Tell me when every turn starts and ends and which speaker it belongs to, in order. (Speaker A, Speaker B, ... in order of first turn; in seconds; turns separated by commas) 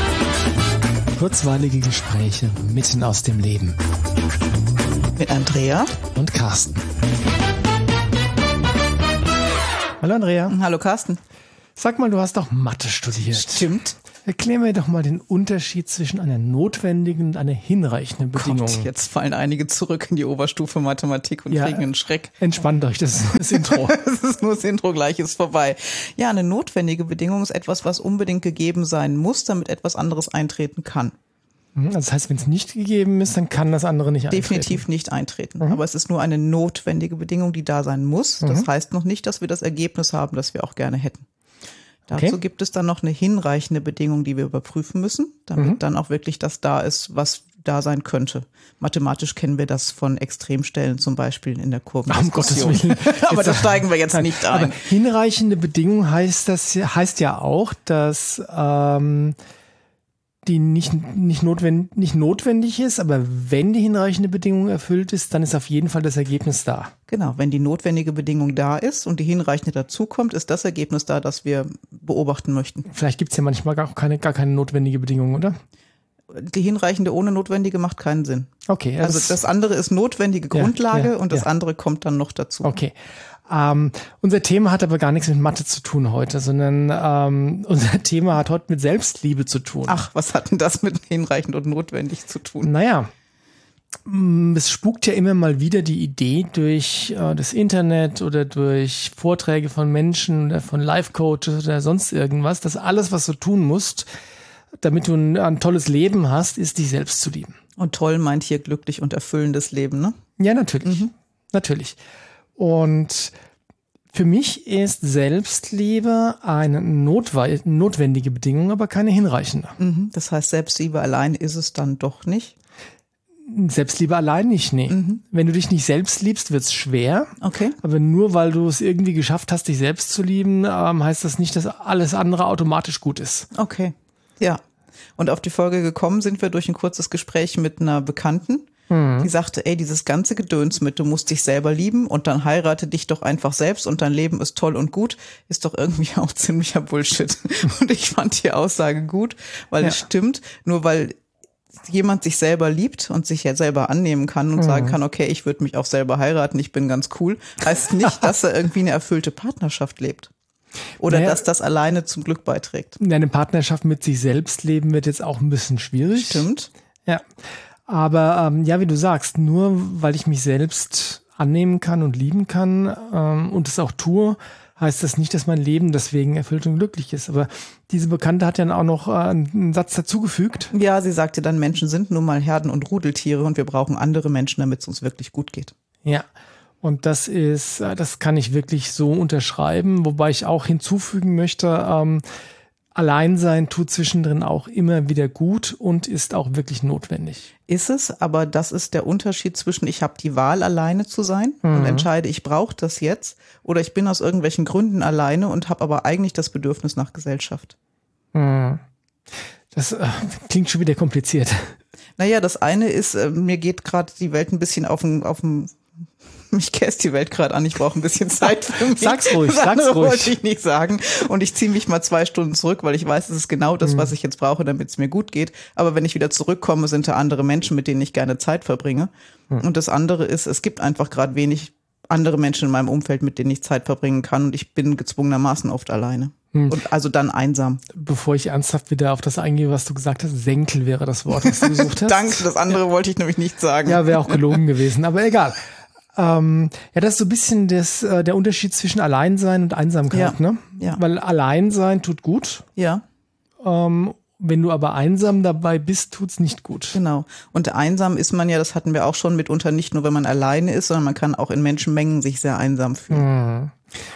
Speaker A: 1.1-3.8, Speaker B: 5.2-6.0, Speaker A: 6.1-6.8, Speaker A: 10.0-10.6, Speaker B: 10.5-11.2, Speaker A: 11.8-13.7, Speaker B: 13.3-14.0, Speaker A: 14.2-18.9, Speaker B: 18.4-22.3, Speaker A: 21.5-21.9, Speaker A: 22.4-23.9, Speaker B: 23.5-31.1, Speaker A: 31.8-34.9, Speaker B: 34.3-41.3, Speaker A: 42.1-42.4, Speaker B: 42.1-54.8, Speaker A: 52.1-59.4, Speaker A: 60.5-66.9, Speaker B: 67.1-72.9, Speaker A: 72.9-75.5, Speaker B: 76.3-78.5, Speaker A: 78.7-79.4, Speaker B: 79.0-82.8, Speaker A: 80.5-81.4, Speaker A: 82.6-82.9, Speaker A: 83.5-90.0, Speaker B: 89.9-92.7, Speaker A: 92.6-93.1, Speaker A: 94.1-104.1, Speaker A: 104.8-107.5, Speaker B: 107.8-110.2, Speaker A: 110.4-112.0, Speaker B: 110.8-111.1, Speaker A: 112.6-113.3, Speaker A: 114.1-119.8, Speaker B: 119.8-122.5, Speaker A: 123.5-133.5, Speaker B: 124.9-125.2, Speaker B: 127.4-127.8, Speaker B: 133.5-134.6, Speaker B: 135.2-138.7, Speaker A: 138.9-139.3, Speaker B: 139.2-151.1, Speaker B: 151.8-160.3, Speaker A: 154.6-155.0, Speaker B: 161.0-163.0, Speaker A: 161.1-161.4, Speaker A: 163.0-166.5, Speaker B: 166.2-166.7, Speaker A: 167.9-180.7, Speaker B: 180.7-185.7, Speaker A: 186.8-192.2, Speaker A: 192.9-197.5, Speaker B: 197.7-207.8, Speaker A: 201.6-202.1, Speaker A: 208.3-208.8, Speaker A: 209.7-211.6, Speaker B: 212.2-215.8, Speaker B: 216.5-237.8, Speaker A: 218.9-220.4, Speaker A: 237.9-242.4, Speaker B: 241.4-244.6, Speaker A: 243.8-245.6, Speaker A: 246.2-252.7, Speaker B: 250.1-251.0, Speaker B: 252.8-253.0, Speaker A: 253.6-257.0, Speaker B: 256.9-263.3, Speaker A: 263.1-263.8